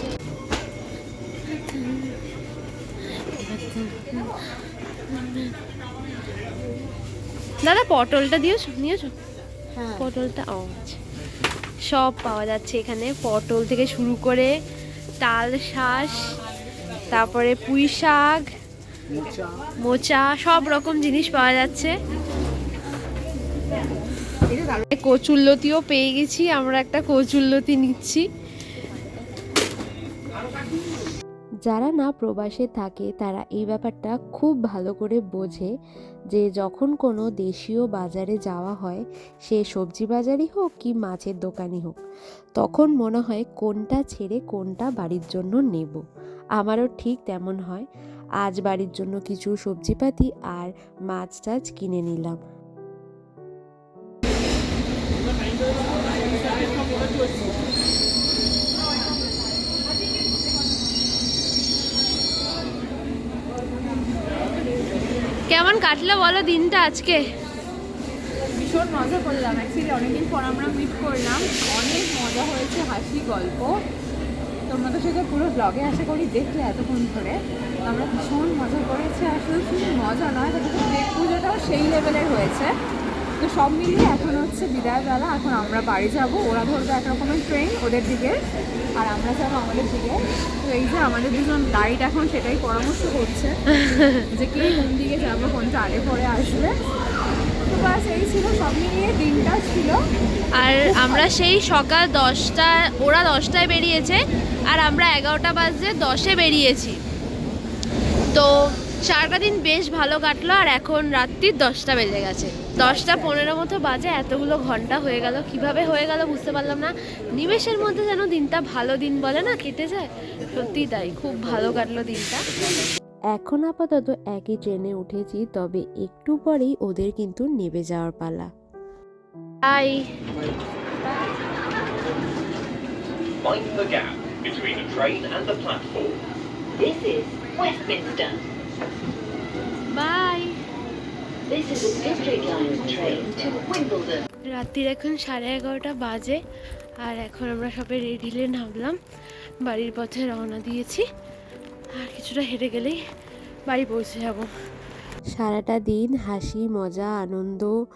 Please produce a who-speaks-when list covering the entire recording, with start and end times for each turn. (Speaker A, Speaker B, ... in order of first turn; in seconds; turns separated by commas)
Speaker A: 1.6-2.1, Speaker A: 3.3-4.3, Speaker A: 5.1-5.5, Speaker A: 7.6-9.1, Speaker A: 9.8-11.0, Speaker A: 11.9-14.5, Speaker A: 15.2-16.3, Speaker A: 17.1-18.4, Speaker A: 19.8-21.9, Speaker B: 24.5-24.9, Speaker A: 24.9-28.2, Speaker C: 31.7-35.7, Speaker C: 36.3-42.0, Speaker C: 42.6-46.0, Speaker C: 46.6-47.9, Speaker C: 48.4-52.4, Speaker A: 65.5-67.2, Speaker B: 68.6-73.7, Speaker B: 74.7-82.7, Speaker B: 83.4-88.4, Speaker B: 89.0-93.5, Speaker A: 93.7-94.3, Speaker B: 94.3-96.8, Speaker B: 97.7-100.0, Speaker A: 100.5-107.0, Speaker B: 100.9-101.2, Speaker A: 109.0-122.4, Speaker C: 123.3-128.5, Speaker A: 129.6-130.1, Speaker D: 133.4-136.2, Speaker E: 136.8-138.4, Speaker A: 139.9-140.5, Speaker E: 141.5-144.2, Speaker A: 144.5-146.4, Speaker A: 147.0-148.9, Speaker A: 149.7-151.0, Speaker A: 152.0-153.0, Speaker A: 153.7-154.5, Speaker C: 155.3-157.8